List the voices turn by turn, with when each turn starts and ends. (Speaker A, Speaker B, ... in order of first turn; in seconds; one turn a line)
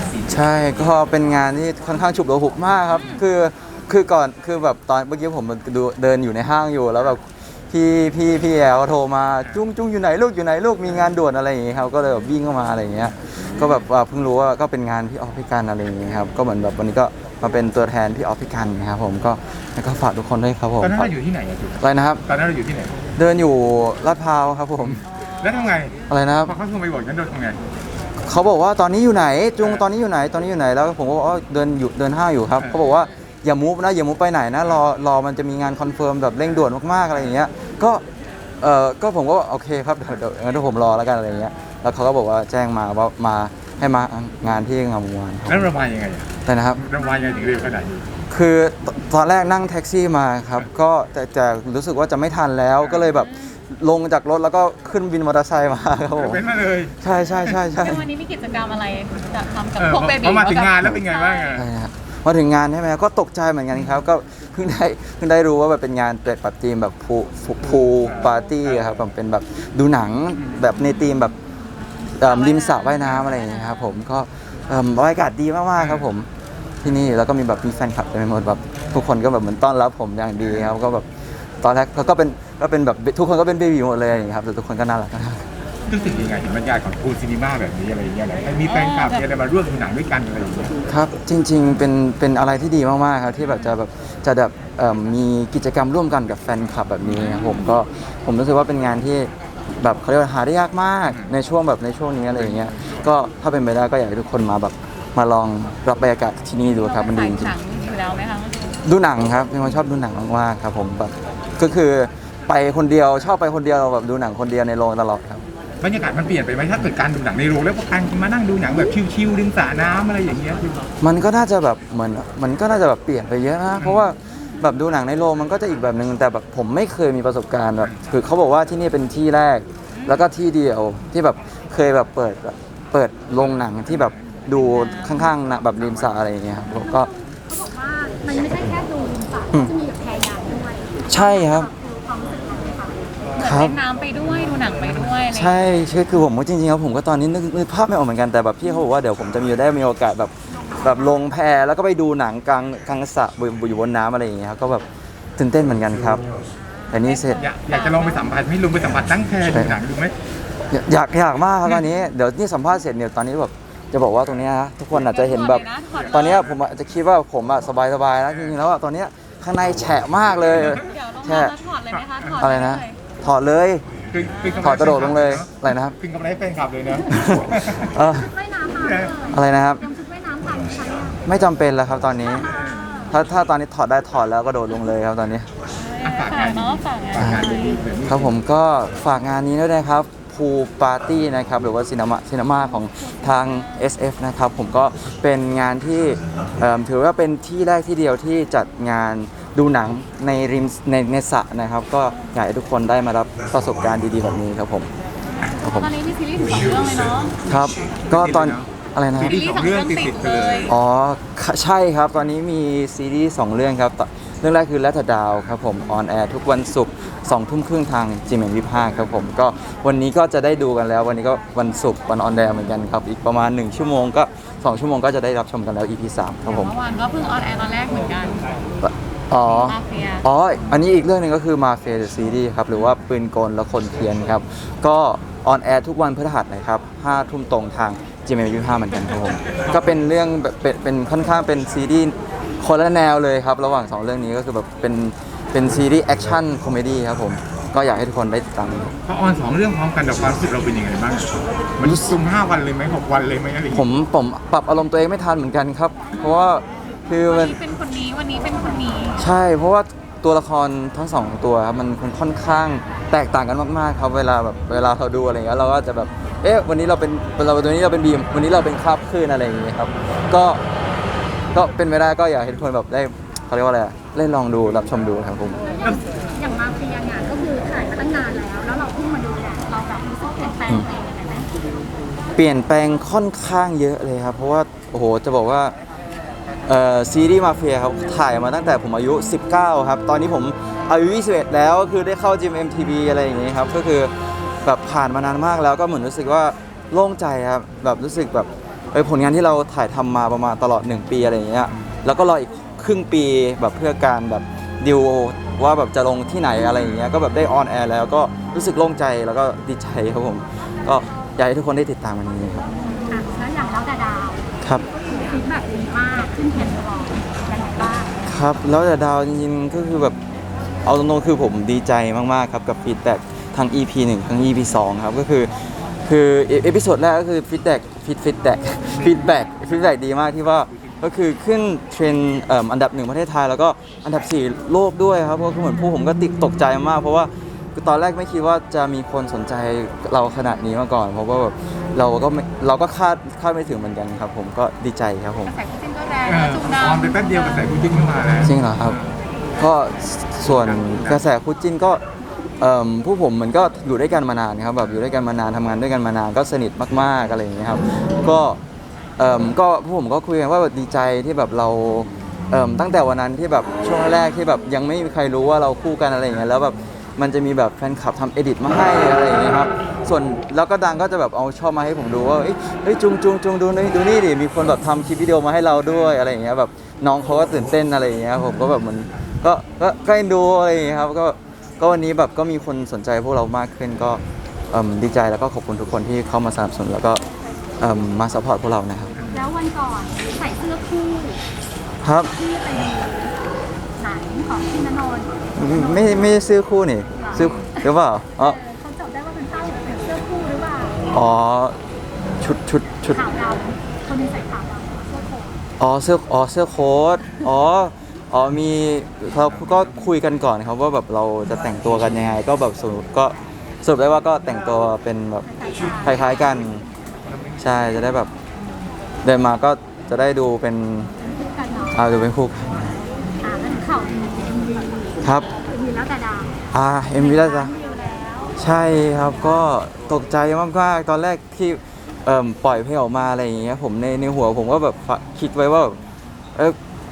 Speaker A: 0.3-21.1
Speaker B: 2.9-3.2
Speaker C: 20.8-23.0
Speaker A: 21.8-22.2
Speaker A: 23.2-25.0
Speaker C: 24.8-27.6
Speaker B: 25.1-25.8
Speaker A: 26.1-26.6
Speaker A: 28.2-38.0
Speaker A: 38.6-45.7
Speaker C: 45.5-48.1
Speaker A: 46.5-46.9
Speaker A: 48.3-56.4
Speaker B: 53.1-53.5
Speaker C: 56.2-57.0
Speaker A: 57.0-58.1
Speaker B: 57.5-61.6
Speaker C: 59.8-61.7
Speaker A: 61.5-71.3
Speaker C: 67.7-68.9
Speaker B: 72.2-74.0
Speaker A: 72.2-76.3
Speaker C: 75.8-76.1
Speaker A: 76.8-81.1
Speaker A: 81.6-85.5
Speaker C: 85.9-90.7
Speaker B: 88.7-89.2
Speaker A: 90.9-107.6
Speaker C: 102.5-103.0
Speaker B: 106.7-108.8
Speaker A: 108.8-115.4
Speaker C: 115.8-120.8
Speaker A: 121.0-137.1
Speaker C: 123.8-124.1
Speaker B: 129.9-130.2
Speaker C: 133.4-134.5
Speaker B: 134.7-135.3
Speaker C: 135.4-136.1
Speaker D: 136.8-143.0
Speaker A: 141.1-141.7
Speaker B: 143.4-145.6
Speaker A: 143.4-143.8
Speaker A: 145.3-154.8
Speaker D: 150.6-151.1
Speaker A: 155.4-156.2
Speaker B: 156.9-158.4
Speaker A: 156.9-157.4
Speaker C: 157.4-160.2
Speaker A: 159.4-159.8
Speaker A: 160.7-171.5
Speaker B: 164.9-166.4
Speaker C: 166.0-166.6
Speaker B: 170.7-173.0
Speaker A: 172.4-173.9
Speaker C: 174.1-177.9
Speaker B: 174.3-175.0
Speaker A: 174.6-175.9
Speaker A: 177.1-178.3
Speaker D: 178.0-181.2
Speaker C: 178.7-179.2
Speaker A: 179.3-179.8
Speaker A: 181.3-182.5
Speaker C: 182.4-183.1
Speaker A: 183.1-185.5
Speaker B: 185.7-187.8
Speaker C: 186.0-188.3
Speaker A: 187.2-187.5
Speaker A: 188.1-204.9
Speaker B: 193.0-193.9
Speaker B: 205.5-207.3
Speaker A: 205.6-205.9
Speaker A: 207.5-209.4
Speaker C: 208.1-210.7
Speaker B: 209.2-210.7
Speaker A: 210.7-226.7
Speaker B: 226.4-228.4
Speaker A: 228.8-248.9
Speaker B: 229.4-230.2
Speaker C: 249.1-253.8
Speaker A: 251.8-252.2
Speaker A: 253.7-257.6
Speaker B: 257.2-259.2
Speaker A: 259.2-270.6
Speaker A: 271.5-275.6
Speaker D: 275.7-281.5
Speaker A: 282.4-285.7
Speaker A: 286.7-312.7
Speaker D: 313.1-318.1
Speaker A: 318.3-320.1
Speaker A: 320.9-325.5
Speaker A: 326.1-345.5
Speaker C: 328.9-329.2
Speaker C: 330.7-331.1
Speaker B: 345.4-347.7
Speaker C: 346.3-349.2
Speaker A: 348.4-349.0
Speaker A: 349.6-352.0
Speaker C: 350.5-351.2
Speaker A: 352.6-358.6
Speaker A: 359.2-384.2
Speaker A: 384.7-387.2
Speaker A: 387.8-389.2
Speaker C: 389.2-389.5
Speaker D: 389.3-391.4
Speaker A: 392.0-392.3
Speaker D: 392.3-393.4
Speaker D: 394.0-396.4
Speaker A: 395.6-398.6
Speaker D: 397.2-397.9
Speaker C: 397.3-397.6
Speaker D: 398.4-401.0
Speaker A: 401.1-401.8
Speaker A: 402.4-403.2
Speaker D: 403.1-405.6
Speaker A: 405.8-415.5
Speaker C: 409.4-410.1
Speaker D: 415.4-416.3
Speaker A: 416.0-416.8
Speaker C: 417.3-417.7
Speaker A: 417.6-418.3
Speaker A: 419.2-421.1
Speaker D: 421.2-422.0
Speaker A: 421.9-422.9
Speaker D: 423.4-426.5
Speaker A: 425.2-425.5
Speaker A: 426.7-427.7
Speaker D: 427.1-428.6
Speaker A: 428.6-436.0